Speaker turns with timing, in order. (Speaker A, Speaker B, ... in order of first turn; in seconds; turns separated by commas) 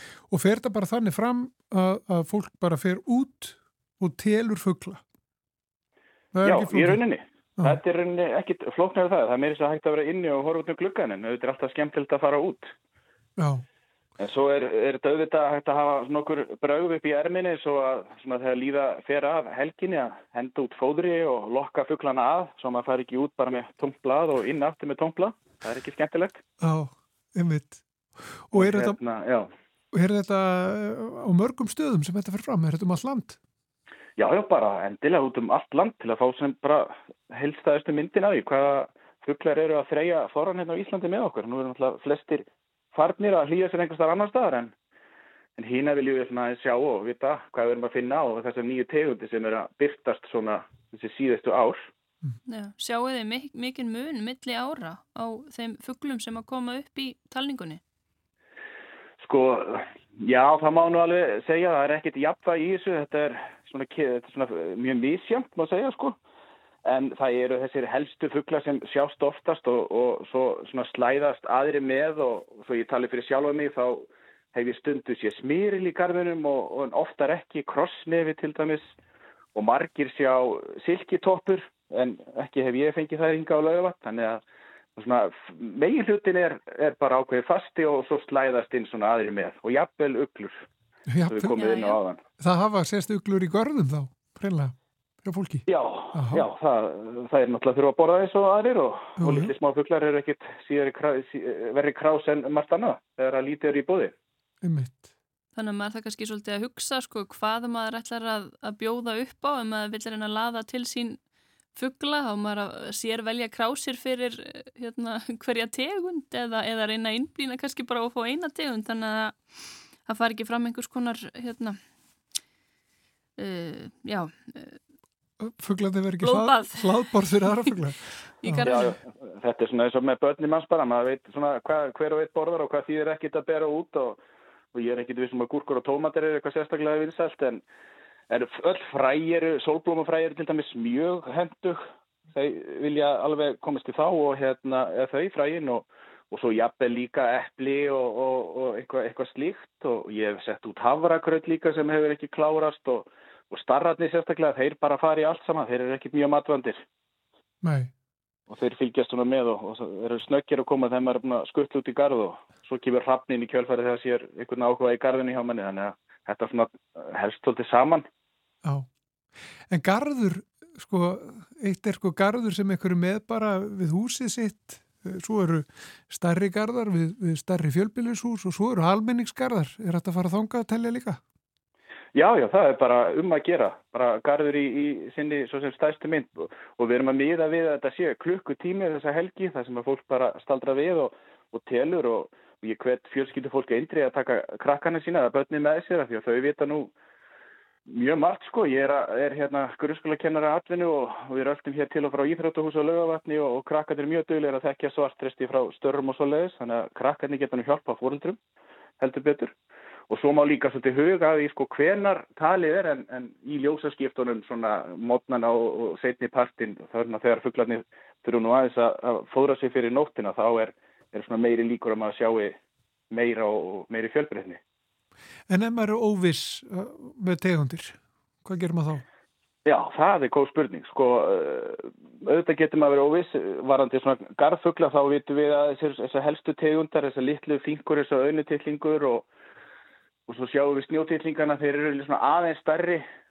Speaker A: 0.2-5.0, Speaker A: 6.3-7.0, Speaker B: 6.4-12.7, Speaker A: 13.4-13.6, Speaker B: 14.2-26.4, Speaker A: 26.6-29.0, Speaker B: 28.5-29.5, Speaker A: 29.9-33.4, Speaker B: 34.2-44.7, Speaker B: 45.6-51.9, Speaker C: 52.5-57.8, Speaker B: 59.2-66.2, Speaker B: 66.8-78.9, Speaker B: 79.5-84.4, Speaker B: 85.0-90.6, Speaker A: 91.1-91.6, Speaker B: 91.3-92.2, Speaker C: 91.5-92.0, Speaker A: 92.4-96.5, Speaker B: 95.7-104.1, Speaker A: 99.2-99.5, Speaker A: 104.6-105.0, Speaker C: 105.6-111.2, Speaker C: 111.7-121.8, Speaker C: 123.4-124.8, Speaker A: 125.4-128.9, Speaker C: 126.2-127.1, Speaker C: 128.4-128.9, Speaker B: 128.7-134.2, Speaker B: 134.7-137.6, Speaker B: 138.3-141.8, Speaker B: 142.3-156.8, Speaker A: 157.6-157.9, Speaker B: 158.5-168.1, Speaker A: 169.7-181.2, Speaker B: 182.1-196.9, Speaker B: 197.9-208.4, Speaker B: 209.0-209.5, Speaker B: 210.1-222.6, Speaker B: 223.1-224.6, Speaker A: 225.5-229.0, Speaker B: 229.7-239.3, Speaker B: 240.3-243.1